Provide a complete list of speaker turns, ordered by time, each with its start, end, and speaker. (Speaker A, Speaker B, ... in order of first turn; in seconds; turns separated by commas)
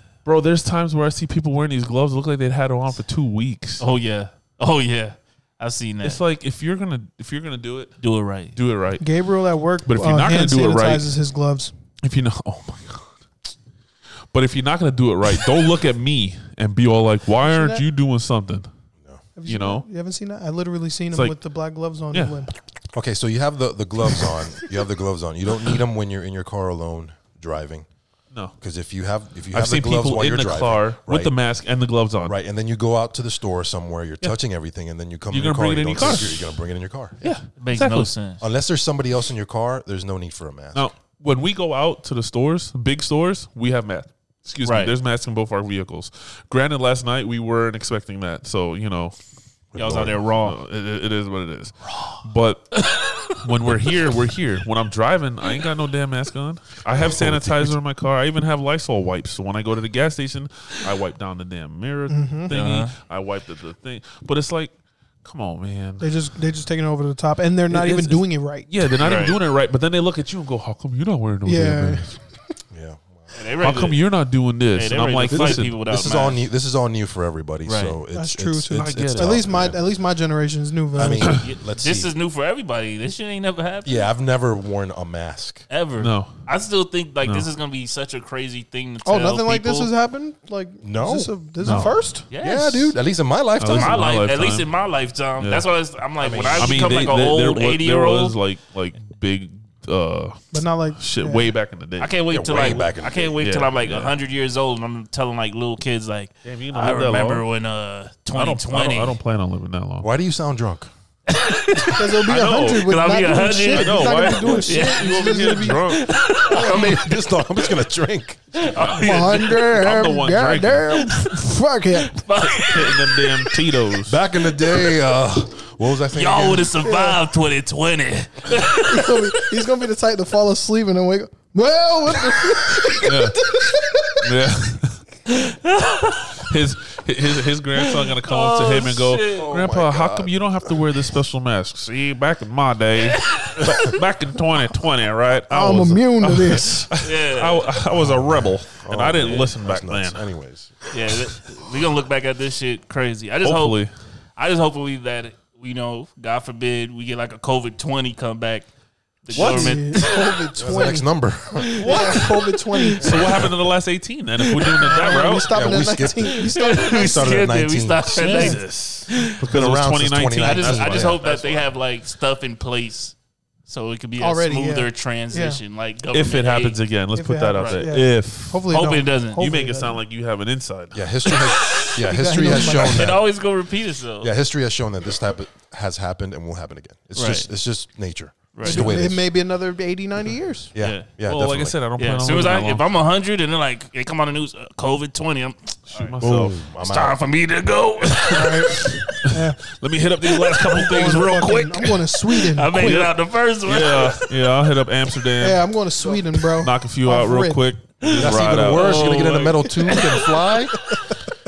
Speaker A: 0.2-3.8, Speaker B: 3.8-6.2, Speaker A: 6.0-8.0, Speaker B: 8.0-8.6, Speaker A: 8.6-9.1, Speaker C: 9.0-11.7, Speaker A: 9.9-11.1, Speaker A: 12.0-13.1, Speaker A: 14.3-18.7, Speaker C: 17.5-17.8, Speaker C: 19.4-22.5, Speaker A: 19.5-19.9, Speaker A: 22.1-22.4, Speaker D: 22.9-27.9, Speaker D: 28.6-31.4, Speaker A: 29.5-32.4, Speaker D: 32.2-37.2, Speaker A: 35.3-36.5, Speaker A: 37.2-38.1, Speaker B: 37.2-38.5, Speaker D: 38.4-40.9, Speaker A: 40.7-49.1, Speaker B: 44.6-44.9, Speaker D: 49.7-50.4, Speaker B: 49.8-50.5, Speaker A: 50.4-64.7, Speaker B: 52.8-53.4, Speaker D: 56.9-57.8, Speaker C: 62.1-62.5, Speaker B: 62.5-62.9, Speaker A: 65.2-66.1, Speaker C: 66.0-68.7, Speaker A: 67.7-72.2, Speaker B: 69.0-69.4, Speaker C: 71.5-72.1, Speaker D: 72.7-73.3, Speaker B: 73.3-74.0, Speaker A: 73.6-75.8, Speaker B: 74.7-76.5, Speaker D: 75.3-79.8, Speaker B: 77.7-78.0, Speaker C: 78.1-81.4, Speaker A: 78.7-79.6, Speaker D: 81.0-82.1, Speaker B: 81.4-84.0, Speaker D: 83.8-85.6, Speaker B: 85.7-89.9, Speaker A: 86.0-86.3, Speaker A: 87.2-87.5, Speaker C: 89.0-92.9, Speaker D: 90.8-91.3, Speaker A: 91.6-92.0, Speaker B: 92.3-92.8, Speaker D: 92.4-94.1, Speaker A: 93.6-94.7, Speaker B: 93.7-98.4, Speaker D: 96.2-97.1, Speaker A: 96.6-102.1, Speaker C: 100.5-101.5, Speaker B: 102.0-109.2, Speaker D: 102.3-103.4, Speaker A: 103.4-104.2, Speaker A: 106.4-107.4, Speaker A: 108.3-110.1, Speaker D: 110.0-110.9, Speaker B: 111.3-112.2, Speaker C: 111.9-116.0, Speaker A: 112.3-113.0, Speaker B: 112.8-117.1, Speaker A: 113.7-116.1, Speaker D: 116.5-118.7, Speaker C: 116.5-116.8, Speaker B: 118.5-119.6, Speaker A: 118.7-121.1, Speaker C: 118.9-122.3, Speaker B: 121.9-123.6, Speaker A: 122.4-124.2, Speaker D: 124.0-126.8, Speaker B: 126.1-129.5, Speaker C: 126.7-127.2, Speaker C: 128.7-134.3, Speaker A: 133.0-133.5, Speaker A: 134.2-135.0, Speaker B: 135.3-136.5, Speaker A: 136.3-150.2, Speaker B: 137.8-139.5, Speaker D: 139.4-140.8, Speaker B: 143.1-144.0, Speaker C: 145.5-146.9, Speaker B: 147.0-147.8, Speaker D: 148.8-150.9, Speaker B: 150.9-153.8, Speaker A: 153.4-153.9, Speaker B: 154.4-158.7, Speaker B: 159.2-160.3, Speaker C: 159.3-161.1, Speaker A: 159.3-160.0, Speaker D: 160.6-162.2, Speaker A: 161.8-162.3, Speaker C: 161.8-163.5, Speaker A: 163.0-165.8, Speaker D: 163.1-163.5, Speaker B: 164.5-164.9, Speaker C: 164.7-167.0, Speaker D: 165.4-168.1, Speaker B: 166.5-169.4, Speaker C: 168.1-168.6, Speaker A: 168.2-171.6, Speaker D: 169.4-171.4, Speaker B: 170.4-173.2, Speaker B: 173.7-176.8, Speaker C: 174.2-175.6, Speaker A: 176.1-178.8, Speaker C: 177.1-180.0, Speaker B: 177.5-177.8, Speaker B: 178.7-179.5, Speaker A: 179.4-181.0, Speaker D: 180.9-183.3, Speaker B: 181.3-182.0, Speaker C: 182.0-183.2, Speaker B: 182.5-184.3, Speaker D: 184.2-189.2, Speaker B: 187.2-187.5, Speaker B: 188.5-188.9, Speaker C: 188.6-190.7, Speaker D: 190.7-191.8, Speaker B: 190.8-191.1, Speaker A: 191.2-193.0, Speaker B: 192.0-196.2, Speaker A: 195.9-196.6, Speaker D: 196.2-197.2, Speaker B: 196.8-199.2, Speaker C: 198.3-199.6, Speaker A: 199.2-202.0, Speaker C: 200.7-203.1, Speaker B: 202.3-204.3, Speaker A: 202.7-205.7, Speaker C: 205.4-207.6, Speaker A: 206.4-209.8, Speaker B: 208.0-210.2, Speaker D: 208.2-210.9, Speaker C: 209.9-210.2, Speaker C: 210.9-211.2